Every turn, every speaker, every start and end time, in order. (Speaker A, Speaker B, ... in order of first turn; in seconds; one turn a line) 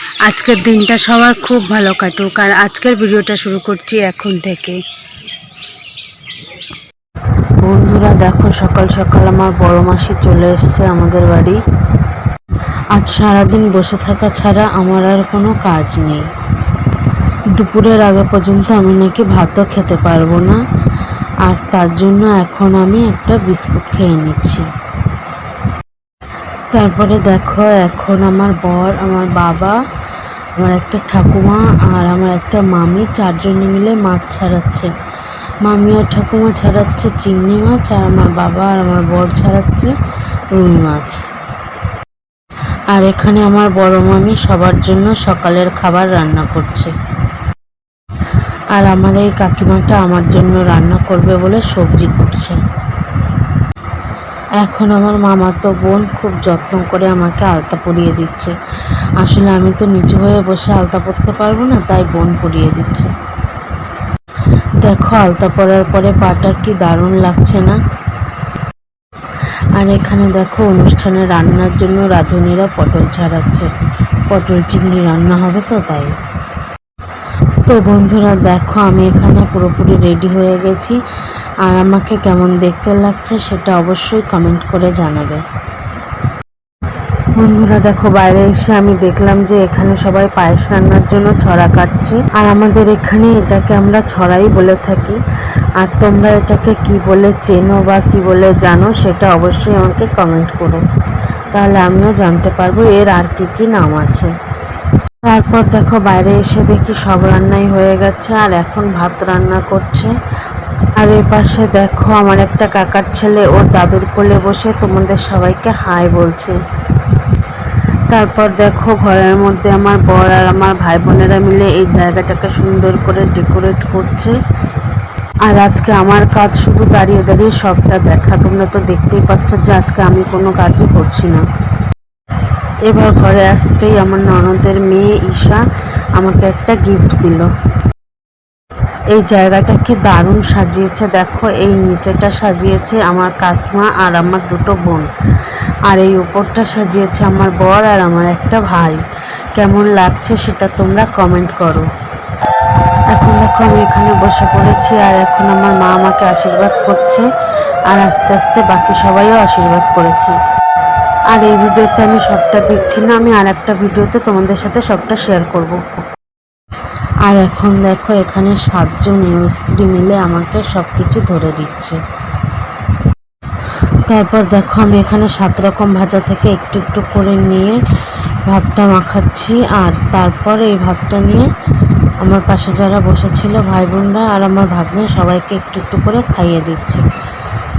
Speaker A: 0.2-4.8
Speaker A: 7.6-11.6
Speaker A: 12.9-16.3
Speaker A: 17.5-20.6
Speaker A: 21.4-24.7
Speaker A: 26.7-29.8
Speaker A: 30.6-34.9
Speaker A: 35.6-39.9
Speaker A: 40.5-41.2
Speaker A: 42.9-46.9
Speaker A: 48.7-52.6
Speaker A: 54.6-58.5
Speaker A: 59.2-63.1
Speaker A: 64.8-67.8
Speaker A: 69.8-73.7
Speaker A: 74.3-76.1
Speaker A: 77.7-81.0
Speaker A: 81.6-85.4
Speaker A: 87.3-95.2
Speaker A: 95.8-100.8
Speaker A: 101.5-104.3
Speaker A: 105.2-110.1
Speaker A: 111.0-116.6
Speaker A: 118.1-124.3
Speaker A: 125.4-131.4
Speaker A: 132.8-135.6
Speaker A: 136.1-137.5
Speaker A: 139.1-145.1
Speaker A: 145.9-149.0
Speaker A: 149.5-151.9
Speaker A: 153.1-157.3
Speaker A: 157.9-160.4
Speaker A: 161.3-165.8
Speaker A: 167.2-172.0
Speaker A: 174.1-177.8
Speaker A: 178.4-181.5
Speaker A: 182.2-187.0